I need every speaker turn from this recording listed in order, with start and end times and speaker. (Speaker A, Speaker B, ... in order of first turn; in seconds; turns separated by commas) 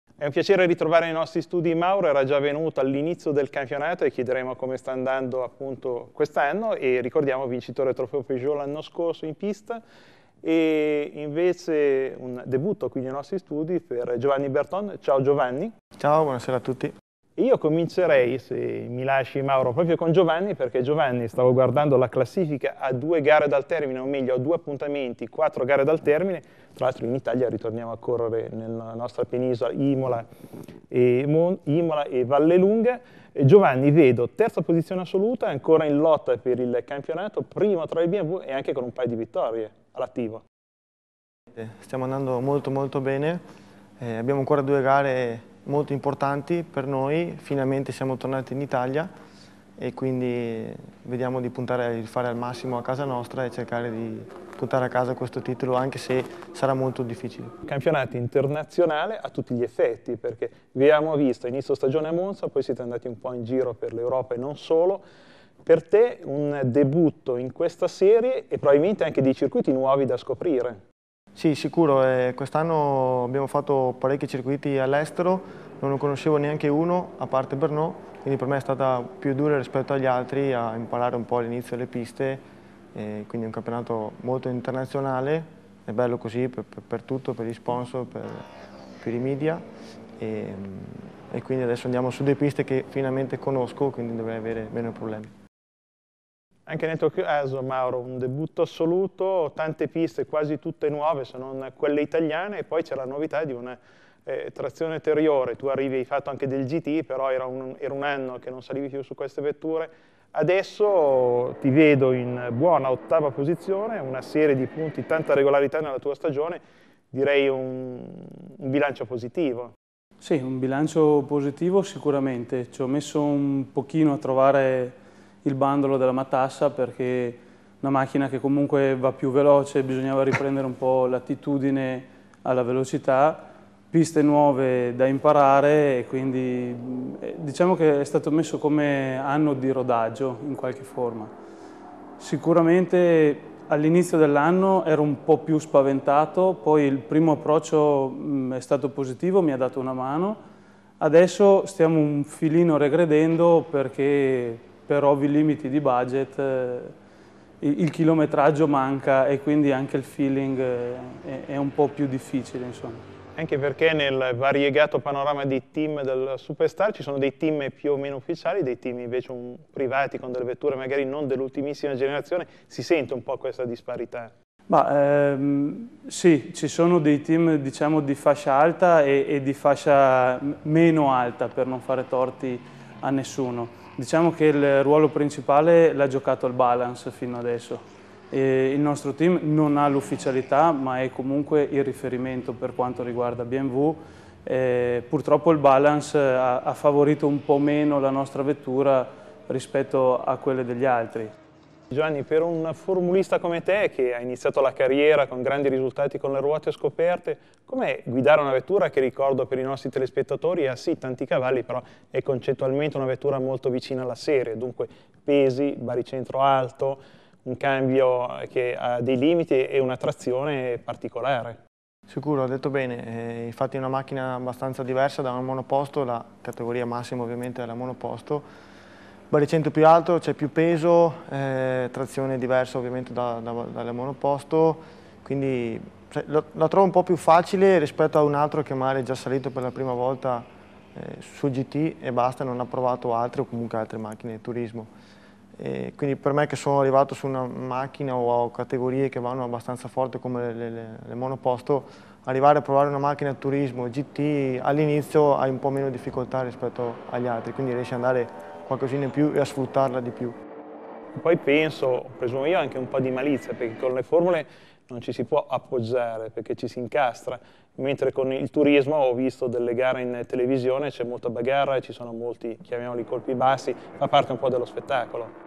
Speaker A: 0.2-9.8, Speaker A: 10.4-15.7, Speaker B: 16.0-16.9, Speaker A: 17.4-30.2, Speaker A: 30.9-40.4, Speaker B: 41.5-43.4, Speaker B: 44.0-49.1, Speaker B: 49.8-57.5, Speaker A: 57.7-65.0, Speaker A: 65.6-70.8, Speaker B: 71.4-82.4, Speaker B: 82.9-88.4, Speaker B: 89.0-89.6, Speaker B: 90.2-95.3, Speaker A: 96.7-119.7, Speaker C: 120.2-141.3, Speaker C: 142.2-150.4, Speaker C: 151.0-156.9, Speaker C: 157.6-163.0, Speaker A: 163.4-174.3, Speaker C: 174.7-201.3, Speaker A: 201.9-221.6, Speaker B: 222.1-228.4, Speaker B: 229.3-244.9, Speaker B: 245.6-260.4, Speaker A: 261.1-275.3